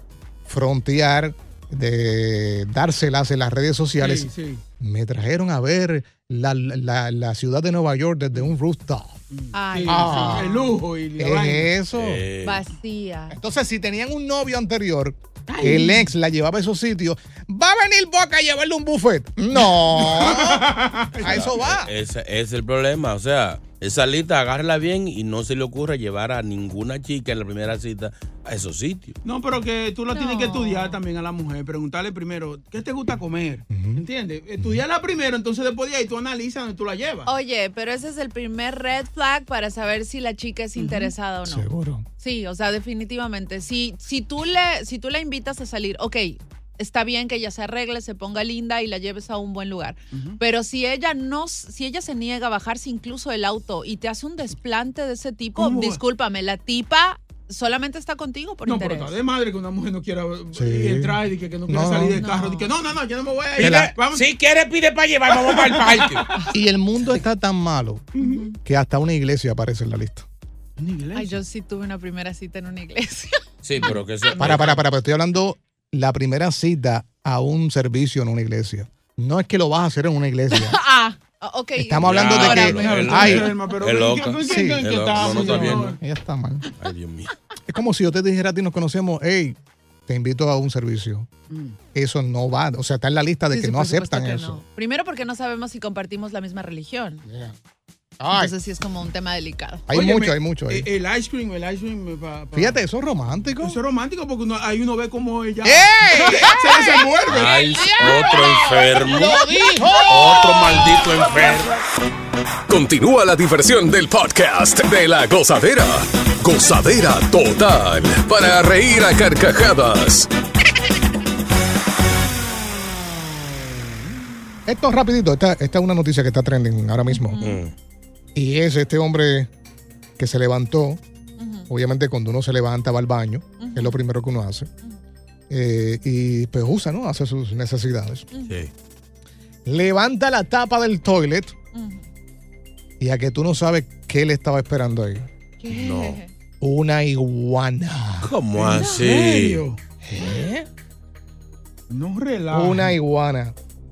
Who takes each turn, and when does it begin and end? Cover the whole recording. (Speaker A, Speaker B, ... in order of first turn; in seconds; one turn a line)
Speaker A: 0.5-9.2
Speaker B: 4.0-4.6
Speaker B: 9.3-11.7
Speaker C: 9.5-10.8
Speaker A: 9.9-12.2
Speaker D: 11.9-12.6
Speaker C: 12.4-13.4
Speaker A: 13.3-21.9
Speaker B: 15.5-16.1
Speaker B: 19.6-21.5
Speaker D: 21.1-29.2
Speaker B: 29.2-37.3
Speaker C: 30.1-31.0
Speaker A: 33.7-34.0
Speaker C: 37.2-41.7
Speaker B: 40.8-41.1
Speaker A: 41.4-42.0
Speaker C: 42.2-59.2
Speaker B: 50.1-50.4
Speaker B: 55.5-56.0
Speaker B: 58.6-64.3
Speaker A: 60.5-62.2
Speaker C: 62.1-62.7
Speaker D: 63.6-66.2
Speaker A: 63.6-64.0
Speaker B: 65.2-66.4
Speaker A: 66.5-68.1
Speaker C: 68.2-68.6
Speaker A: 68.6-70.3
Speaker B: 70.8-71.4
Speaker C: 71.1-73.4
Speaker D: 73.6-74.8
Speaker B: 73.8-74.8
Speaker A: 74.3-80.8
Speaker C: 80.5-83.3
Speaker A: 81.8-83.5
Speaker D: 82.0-86.0
Speaker B: 82.7-86.0
Speaker A: 84.4-86.6
Speaker D: 86.8-87.3
Speaker A: 87.7-91.3
Speaker B: 91.5-91.8
Speaker A: 91.9-94.6
Speaker C: 93.5-97.2
Speaker A: 97.2-97.5
Speaker A: 98.2-98.5
Speaker C: 98.3-99.9
Speaker A: 99.9-100.9
Speaker B: 99.9-102.8
Speaker A: 102.5-103.8
Speaker B: 103.6-107.8
Speaker A: 105.6-111.6
Speaker D: 107.3-109.4
Speaker D: 110.1-111.7
Speaker E: 112.7-120.3
Speaker A: 124.7-127.4
Speaker C: 127.1-127.6
Speaker D: 127.4-127.7
Speaker A: 128.3-129.5
Speaker A: 130.2-131.0
Speaker C: 131.4-131.7
Speaker A: 131.7-134.7
Speaker C: 133.6-134.0
Speaker A: 135.5-138.2
Speaker D: 138.4-138.7
Speaker A: 139.6-141.5
Speaker C: 141.7-142.1
Speaker A: 143.0-145.3
Speaker C: 145.6-146.3
Speaker D: 145.7-146.2
Speaker A: 146.6-148.3
Speaker D: 148.2-149.6
Speaker B: 148.5-149.8
Speaker A: 150.0-150.7
Speaker B: 151.9-152.9
Speaker A: 152.5-153.5